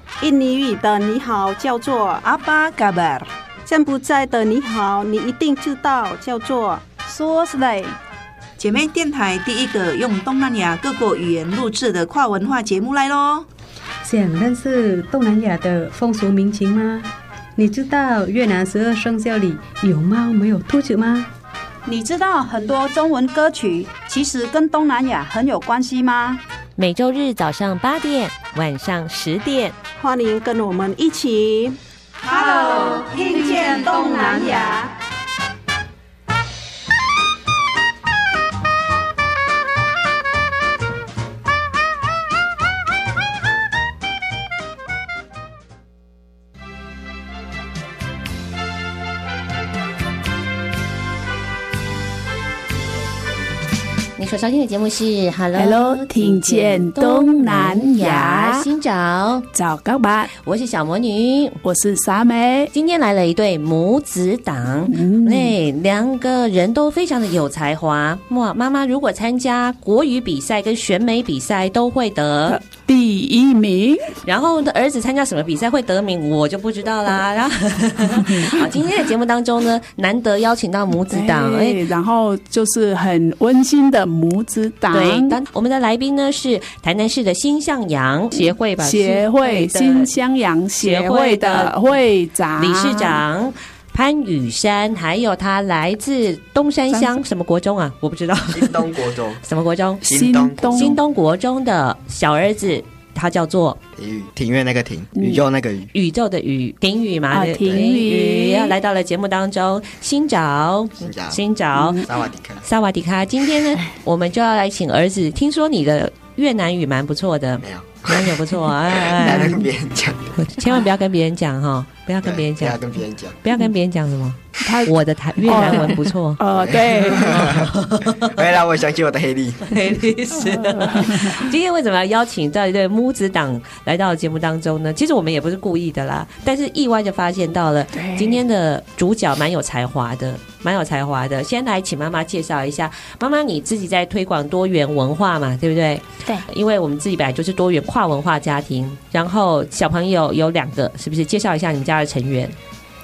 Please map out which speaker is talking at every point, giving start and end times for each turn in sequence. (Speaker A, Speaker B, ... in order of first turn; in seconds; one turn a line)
Speaker A: 0.2-2.2
Speaker B: 2.2-3.3
Speaker A: 3.6-7.0
Speaker C: 7.0-8.0
Speaker B: 8.6-13.5
Speaker D: 14.0-21.3
Speaker C: 21.9-26.4
Speaker E: 26.8-29.8
Speaker A: 30.0-31.8
Speaker C: 32.2-34.9
Speaker A: 33.9-34.2
Speaker E: 54.2-59.5
Speaker F: 55.5-58.7
Speaker F: 59.5-60.3
Speaker E: 60.4-61.6
Speaker F: 61.6-62.7
Speaker E: 62.7-72.6
Speaker F: 64.9-65.5
Speaker F: 72.5-74.1
Speaker E: 74.2-81.8
Speaker F: 78.2-78.5
Speaker F: 81.1-85.3
Speaker E: 84.9-90.1
Speaker F: 88.3-93.2
Speaker E: 90.8-91.8
Speaker E: 92.6-98.9
Speaker G: 98.5-99.4
Speaker E: 99.4-100.0
Speaker F: 100.0-101.0
Speaker G: 100.0-101.0
Speaker E: 100.7-103.8
Speaker G: 104.0-105.9
Speaker E: 105.9-112.0
Speaker F: 107.3-108.7
Speaker G: 111.0-111.4
Speaker F: 111.7-112.0
Speaker G: 112.0-112.6
Speaker E: 112.7-119.6
Speaker G: 117.6-120.4
Speaker E: 120.4-122.8
Speaker G: 122.2-123.4
Speaker E: 123.4-126.4
Speaker F: 124.6-127.5
Speaker G: 126.5-129.8
Speaker E: 127.1-128.4
Speaker E: 129.7-152.5
Speaker F: 130.4-131.4
Speaker F: 137.9-138.4